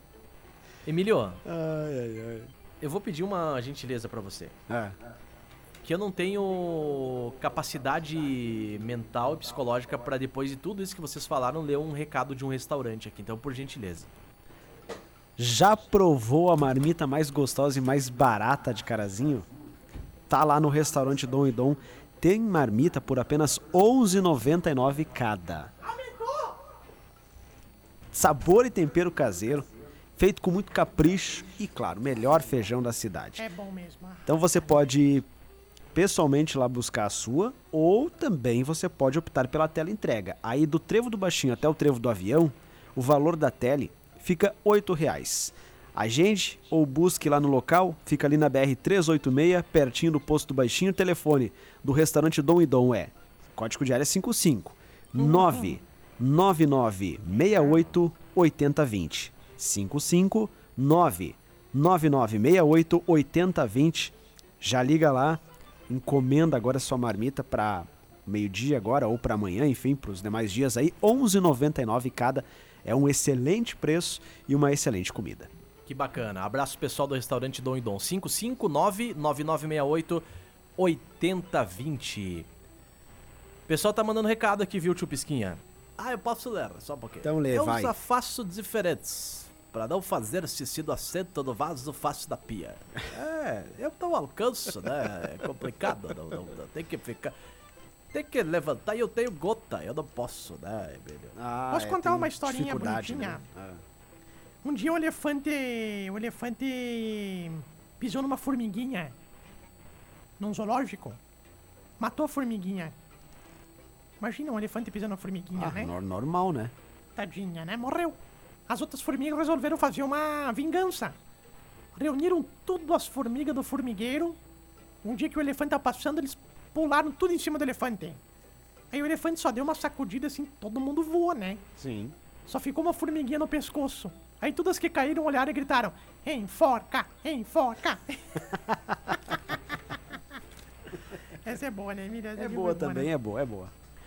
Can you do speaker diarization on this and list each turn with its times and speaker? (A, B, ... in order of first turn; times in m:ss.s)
0:00.8-0:01.4 A
0:01.4-0:02.5 B
0:02.8-0:04.6 A
0:04.7-0:05.0 B
0:05.8-0:14.1 A
0:15.4-0:19.5 B
0:20.3-0:25.7 B
0:25.8-0:26.6 C
0:28.1-0:33.5 B
0:33.4-0:34.8 C
0:34.3-0:35.3 B
0:35.9-1:15.5 B
0:55.2-0:55.8 C
1:15.9-1:20.2 A
1:20.8-1:22.5 A
1:23.7-1:37.3 A
1:27.2-1:28.0 B
1:38.1-1:41.4 A
1:41.4-1:43.8 B
1:41.7-1:43.4 C
1:44.6-1:49.2 C
1:50.4-1:51.2 C
1:52.0-1:52.9 C
1:54.2-1:55.9 C
1:55.6-1:56.7 B
1:57.2-2:01.2 C
2:02.0-2:04.4 C
2:05.0-2:08.2 C
2:08.9-2:11.6 C
2:11.8-2:12.2 B
2:12.5-2:18.6 C
2:18.6-2:19.2 B
2:21.3-2:23.1 C
2:22.4-2:23.7 B